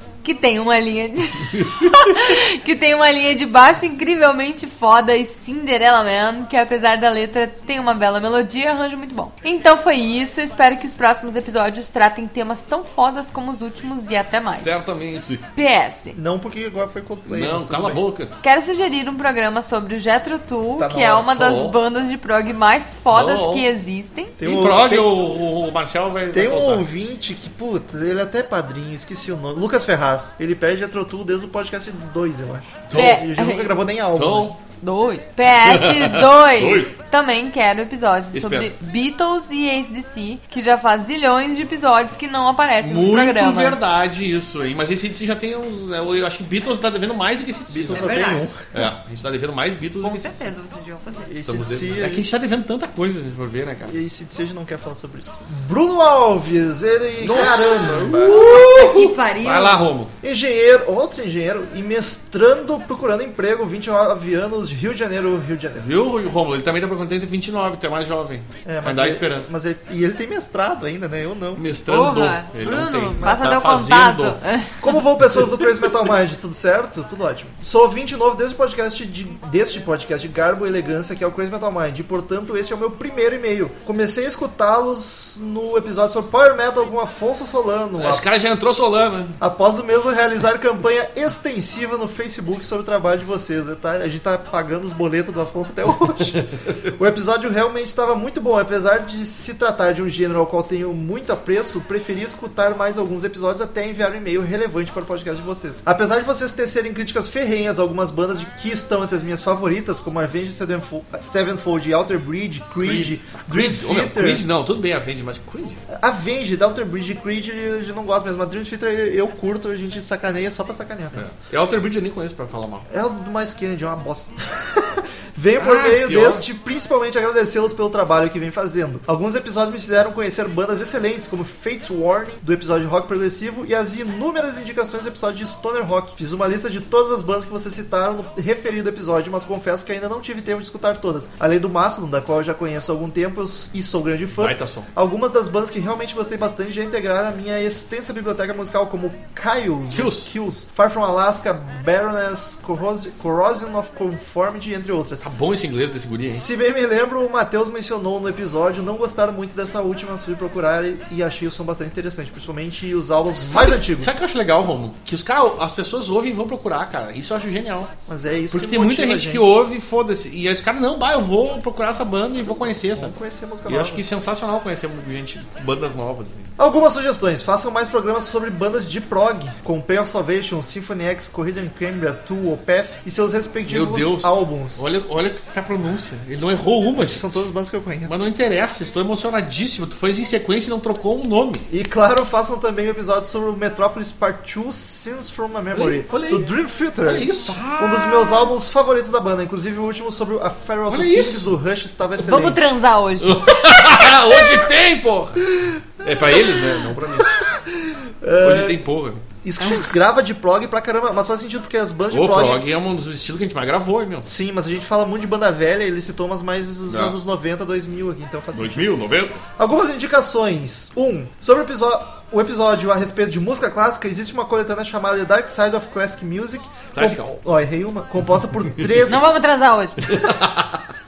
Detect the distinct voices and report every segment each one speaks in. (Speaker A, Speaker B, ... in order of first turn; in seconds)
Speaker A: 0.2-14.9, 15.5-16.2, 18.4-24.4, 32.9-33.7, 34.8-43.8, 47.9-48.5, 50.0-51.3, 57.9-59.8, 71.9-74.8, 202.2-203.4, 229.1-230.0
Speaker B: 14.5-15.4, 17.3-18.3, 21.3-21.8, 23.1-23.7, 24.4-26.9, 32.9-33.3, 34.1-34.5, 35.6-36.9, 38.3-38.7, 42.8-50.5, 51.4-54.0, 57.2-60.1, 65.8-69.5, 71.6-74.4, 88.0-89.4, 112.8-115.8, 121.1-122.9, 125.6-126.5, 144.4-144.9, 149.9-150.3, 155.2-156.4, 163.4-167.9, 168.5-173.1, 173.7-176.5, 183.7-187.2, 188.1-191.7, 195.7-198.5, 200.9-201.5, 203.2-205.5, 206.0-207.3, 208.4-209.2, 212.1-214.3, 216.9-217.2, 218.5-219.4, 226.9-227.4, 230.1-230.8
Speaker C: 16.1-18.0, 20.8-21.5, 24.4-25.2, 26.3-34.6, 47.7-48.7, 51.3-52.3, 53.9-58.8, 60.2-65.9, 68.7-71.7, 73.2-73.8, 74.8-88.3, 89.4-114.5, 115.9-121.2, 122.9-155.3, 156.3-164.2, 168.1-169.4, 172.9-174.1, 176.6-184.9, 187.0-188.2, 191.7-202.6, 205.6-208.8, 209.4-212.6, 214.2-218.9, 219.6-229.4